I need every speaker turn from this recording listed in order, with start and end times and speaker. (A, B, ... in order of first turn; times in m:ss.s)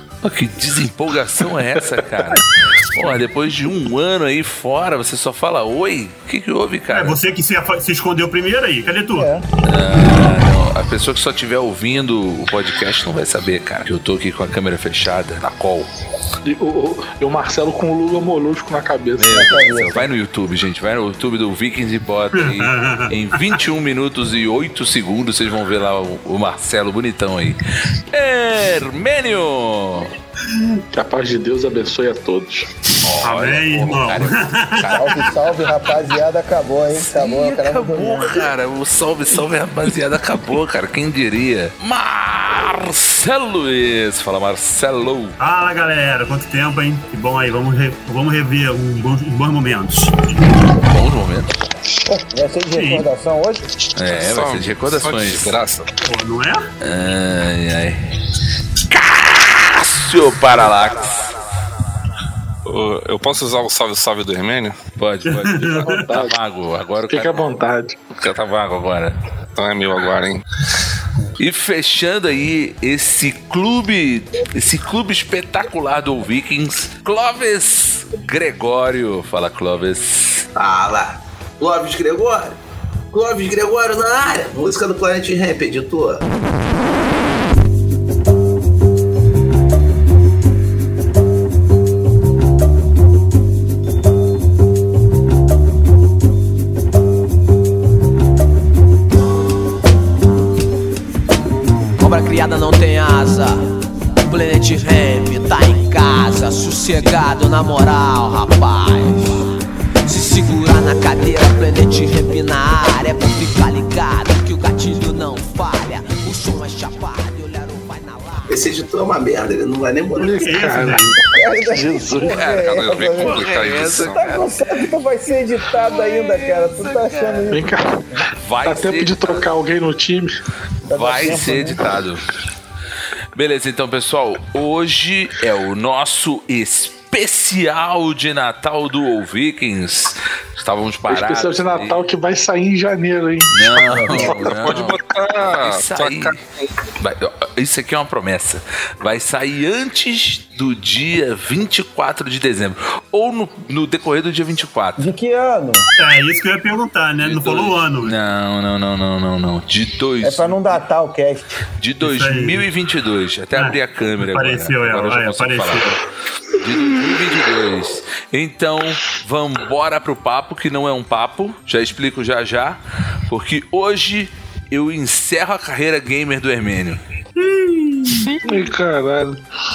0:00.2-0:07.2 A
0:01.9-0:02.4 B
0:06.9-0:09.3 C
0:09.2-0:09.4 D
0:09.6-0:15.9 A
0:16.4-0:19.4 B
0:19.2-0:30.2 A
0:19.3-0:20.1 D
0:22.4-0:23.2 C
0:30.5-0:30.8 C
0:30.9-0:32.7 B
0:33.0-0:35.7 A
0:33.2-0:35.1 C
0:34.9-0:38.5 D
0:36.9-0:45.4 A
0:45.4-0:50.2 C
0:50.8-0:51.6 A
0:52.1-0:53.7 D
0:52.7-0:53.1 C
0:54.0-0:55.5 A
0:54.1-0:55.9 E
0:56.0-0:56.7 C
0:56.8-0:58.1 A
0:58.8-1:01.2 A
1:02.6-1:04.8 E
1:05.0-1:07.5 A
1:05.3-1:06.1 C
1:05.8-1:06.4 B
1:07.1-1:08.0 B
1:08.1-1:09.2 A
1:09.6-1:10.4 E
1:11.4-1:20.5 A
1:20.6-1:22.6 F
1:23.1-1:26.2 F
1:42.0-1:43.8 G
1:44.3-1:49.5 G
1:50.1-1:58.5 G
1:58.5-2:00.5 F
2:00.1-2:01.2 B
2:00.4-2:01.2 C
2:01.3-2:08.2 D
2:01.7-2:02.4 B
2:02.2-2:04.8 A
2:02.5-2:04.2 E
2:05.7-2:07.7 A
2:07.5-2:10.4 B
2:08.3-2:09.5 A
2:10.9-2:11.8 D
2:10.9-2:12.2 A
2:13.4-2:22.0 A
2:21.1-2:24.2 B
2:23.5-2:26.4 A
2:23.9-2:24.5 D
2:24.2-2:26.4 E
2:27.0-2:35.1 A
2:35.0-2:35.9 D
2:36.0-2:38.2 C
2:37.2-2:40.6 A
2:40.2-2:41.5 D
2:41.8-2:45.9 A
2:42.0-2:42.6 C
2:43.6-2:46.0 C
2:46.6-2:57.0 A
2:57.4-2:58.4 C
2:58.4-2:59.4 B